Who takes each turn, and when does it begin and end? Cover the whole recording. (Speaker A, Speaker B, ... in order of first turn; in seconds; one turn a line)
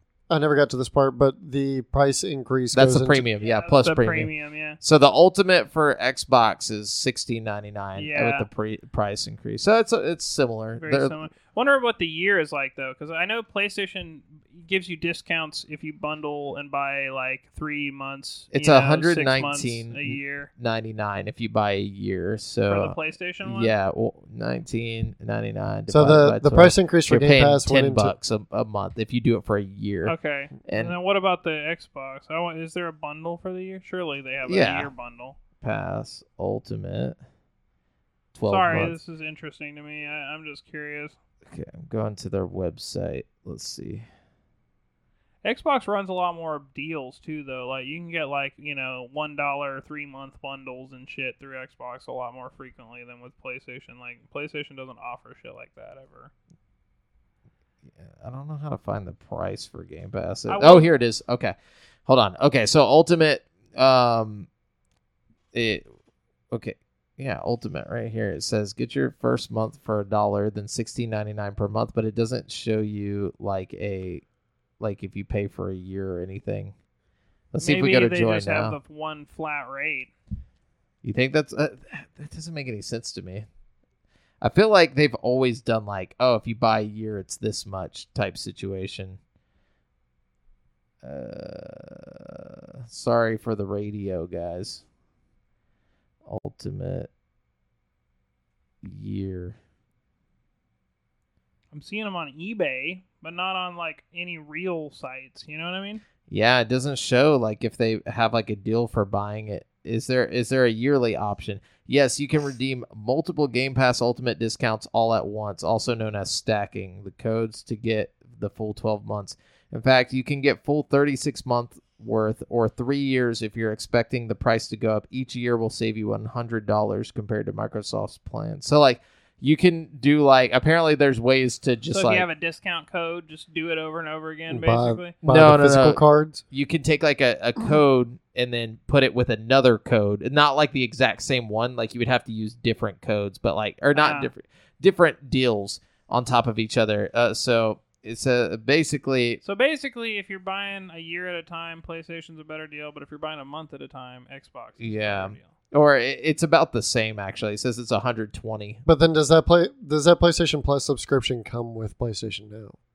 Speaker A: 0.3-3.2
Speaker B: 2.7-11.2
Speaker C: 3.4-4.8
Speaker C: 8.0-8.5
Speaker C: 10.8-20.5
Speaker B: 18.5-30.9
Speaker C: 22.7-23.7
Speaker A: 25.9-28.1
Speaker C: 30.1-35.4
Speaker B: 34.5-34.9
Speaker B: 35.6-37.1
Speaker B: 38.3-38.9
Speaker C: 38.5-41.1
Speaker B: 41.5-44.0
Speaker C: 45.4-56.3
Speaker B: 58.0-61.5
Speaker C: 60.5-60.9
Speaker B: 62.1-64.5
Speaker B: 65.5-65.8
Speaker B: 66.5-74.2
Speaker B: 74.8-76.7
Speaker B: 77.5-78.8
Speaker C: 77.6-80.1
Speaker B: 81.0-83.5
Speaker B: 84.4-89.2
Speaker B: 91.0-94.8
Speaker B: 96.2-97.1
Speaker B: 98.8-99.6
Speaker C: 101.7-106.0
Speaker B: 106.3-132.3
Speaker C: 131.9-135.1
Speaker A: 134.5-136.4
Speaker B: 135.2-149.4
Speaker C: 143.9-144.3
Speaker C: 149.4-155.5
Speaker B: 154.8-158.8
Speaker A: 158.8-162.8